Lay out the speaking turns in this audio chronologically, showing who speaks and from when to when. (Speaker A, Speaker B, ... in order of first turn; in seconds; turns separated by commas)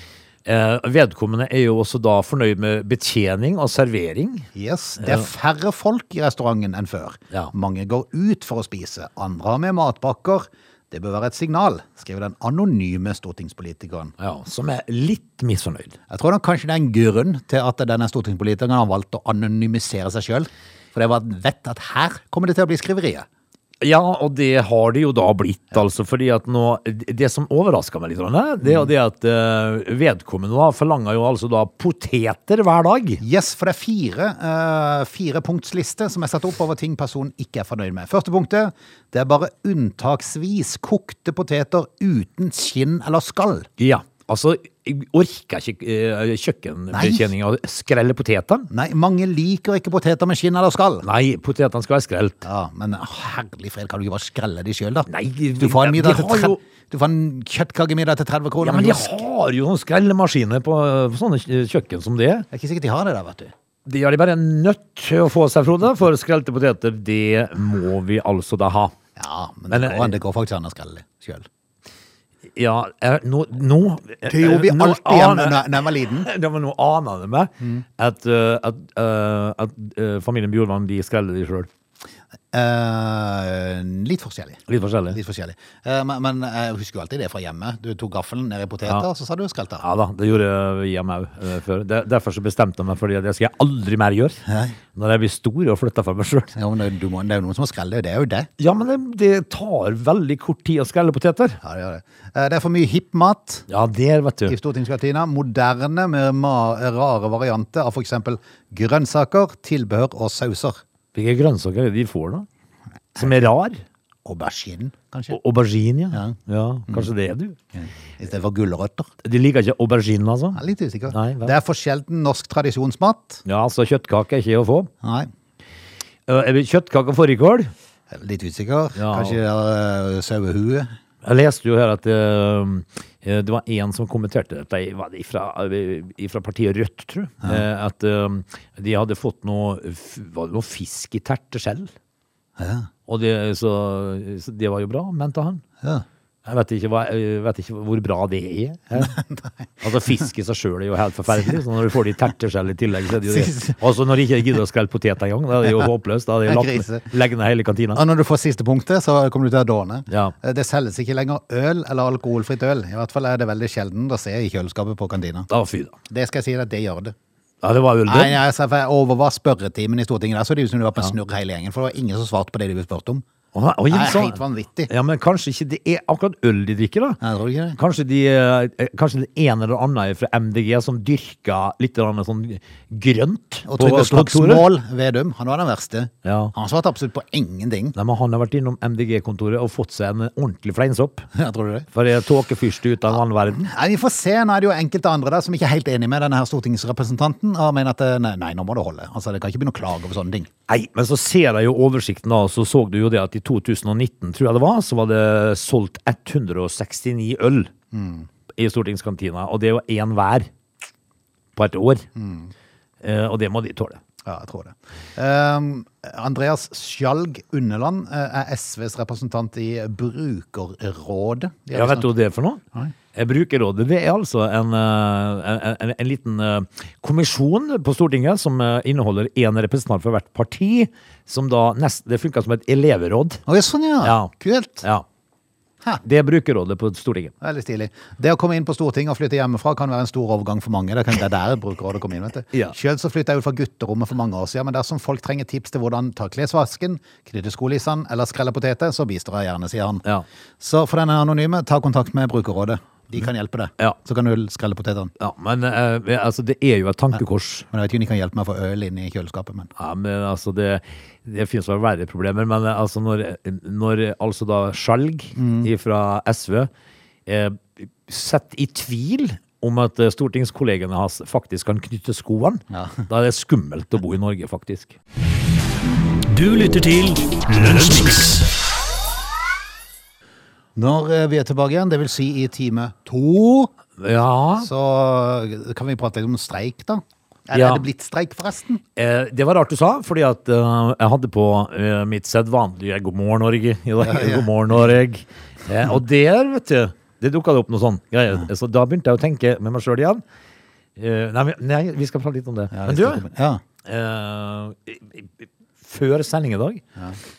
Speaker A: 0.5-4.5, Speaker B: 4.5-14.1, Speaker A: 5.0-5.3, Speaker A: 14.2-16.0, Speaker B: 16.1-23.2, Speaker A: 23.8-33.2, Speaker B: 28.6-28.9, Speaker B: 33.2-43.7, Speaker A: 43.8-48.7, Speaker B: 46.9-47.2, Speaker B: 48.7-51.0, Speaker A: 51.0-52.4, Speaker B: 52.4-59.1, Speaker A: 55.1-56.6, Speaker A: 58.6-62.5, Speaker B: 62.5-63.5, Speaker A: 63.9-68.9, Speaker B: 69.2-71.5, Speaker A: 69.7-70.2, Speaker A: 72.5-81.7, Speaker B: 74.2-76.3, Speaker B: 82.5-89.8, Speaker A: 84.7-85.2, Speaker A: 89.8-94.4, Speaker B: 94.5-94.8, Speaker A: 94.9-96.5, Speaker B: 96.5-98.5, Speaker A: 98.6-101.6, Speaker B: 101.6-103.7, Speaker A: 103.7-104.5, Speaker B: 104.5-110.8, Speaker A: 111.1-112.5, Speaker A: 113.2-113.8, Speaker B: 114.2-115.4, Speaker A: 115.3-117.6, Speaker B: 117.7-119.1, Speaker A: 119.2-121.5, Speaker B: 120.5-123.4, Speaker A: 123.5-124.9, Speaker B: 125.0-125.3, Speaker A: 126.3-127.7, Speaker B: 128.1-130.9, Speaker A: 129.0-129.4, Speaker A: 131.2-141.9, Speaker B: 142.6-142.9, Speaker A: 143.1-145.6, Speaker A: 146.4-149.2, Speaker B: 148.9-149.7, Speaker A: 149.8-158.0, Speaker B: 153.2-153.8, Speaker B: 156.4-157.1, Speaker B: 157.9-165.5, Speaker A: 160.1-160.3, Speaker A: 165.5-165.9, Speaker B: 166.1-167.1, Speaker A: 167.6-168.4, Speaker B: 168.1-173.2, Speaker A: 173.5-177.2, Speaker B: 173.9-174.9, Speaker B: 177.2-177.8, Speaker A: 177.8-184.7, Speaker B: 183.7-187.9, Speaker A: 186.2-186.5, Speaker A: 187.9-191.3, Speaker B: 191.3-191.9, Speaker A: 191.9-193.7, Speaker B: 193.5-200.5, Speaker A: 200.7-207.7, Speaker B: 207.9-208.3, Speaker A: 208.6-210.5, Speaker A: 211.6-212.0, Speaker B: 212.2-212.5, Speaker A: 213.0-214.0, Speaker B: 214.2-222.1, Speaker A: 221.7-222.6, Speaker A: 223.1-233.4, Speaker B: 233.5-234.8, Speaker A: 234.0-234.3, Speaker A: 236.0-237.3, Speaker B: 237.4-250.0, Speaker B: 250.6-255.1, Speaker A: 255.2-257.7, Speaker B: 257.1-259.7, Speaker A: 259.8-266.7, Speaker B: 265.4-265.7, Speaker A: 267.2-274.9, Speaker B: 272.7-273.0, Speaker C: 276.3-278.5, Speaker B: 280.8-283.7, Speaker A: 284.0-284.7, Speaker B: 284.6-288.8, Speaker A: 287.5-287.8, Speaker A: 288.9-300.2, Speaker B: 294.0-294.9, Speaker A: 301.0-303.2, Speaker B: 302.7-303.6, Speaker A: 303.8-306.8